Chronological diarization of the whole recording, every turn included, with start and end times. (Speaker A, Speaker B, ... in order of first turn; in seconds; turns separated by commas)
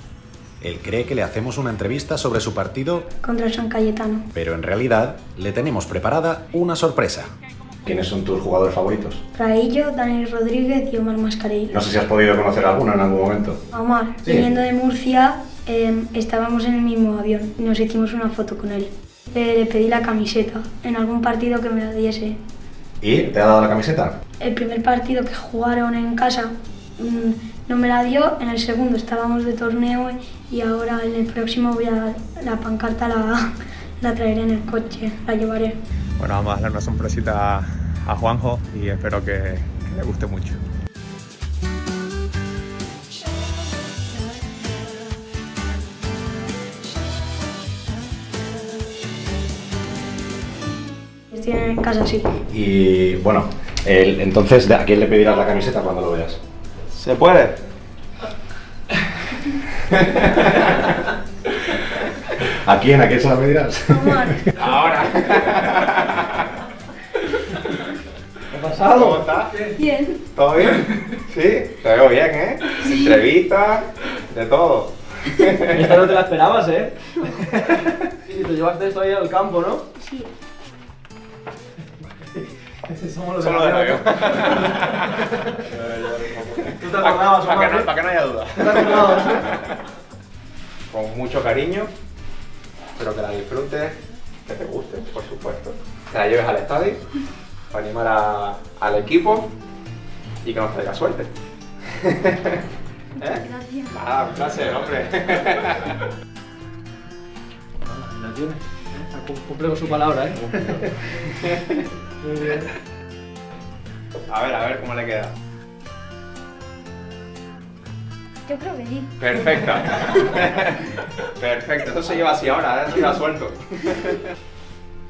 Speaker A: 0.6-3.1, Speaker B: 3.2-4.3, Speaker A: 4.3-7.3, Speaker C: 7.8-9.2, Speaker B: 9.3-11.8, Speaker C: 11.7-13.6, Speaker B: 13.7-22.4, Speaker C: 23.0-24.1, Speaker B: 24.4-35.8, Speaker D: 36.2-40.6, Speaker B: 51.3-52.3, Speaker C: 52.5-56.4, Speaker D: 56.9-57.6, Speaker D: 60.0-60.9, Speaker C: 62.4-64.4, Speaker B: 63.9-64.5, Speaker D: 64.6-66.5, Speaker E: 68.5-69.7, Speaker D: 68.8-69.6, Speaker B: 69.7-70.2, Speaker D: 70.3-76.1, Speaker B: 72.8-73.2, Speaker E: 75.7-77.3, Speaker E: 78.2-79.8, Speaker B: 80.0-80.3, Speaker E: 82.8-84.8, Speaker D: 83.4-89.8, Speaker E: 86.7-87.9, Speaker E: 88.6-89.4, Speaker D: 90.9-91.9, Speaker D: 93.0-97.0, Speaker D: 97.7-99.5, Speaker D: 100.4-101.3, Speaker D: 101.9-102.6, Speaker B: 103.2-103.9, Speaker D: 103.2-106.0, Speaker E: 107.8-110.9, Speaker D: 111.4-111.8, Speaker E: 112.2-112.7, Speaker D: 114.3-115.3, Speaker B: 118.5-119.4, Speaker D: 119.2-124.3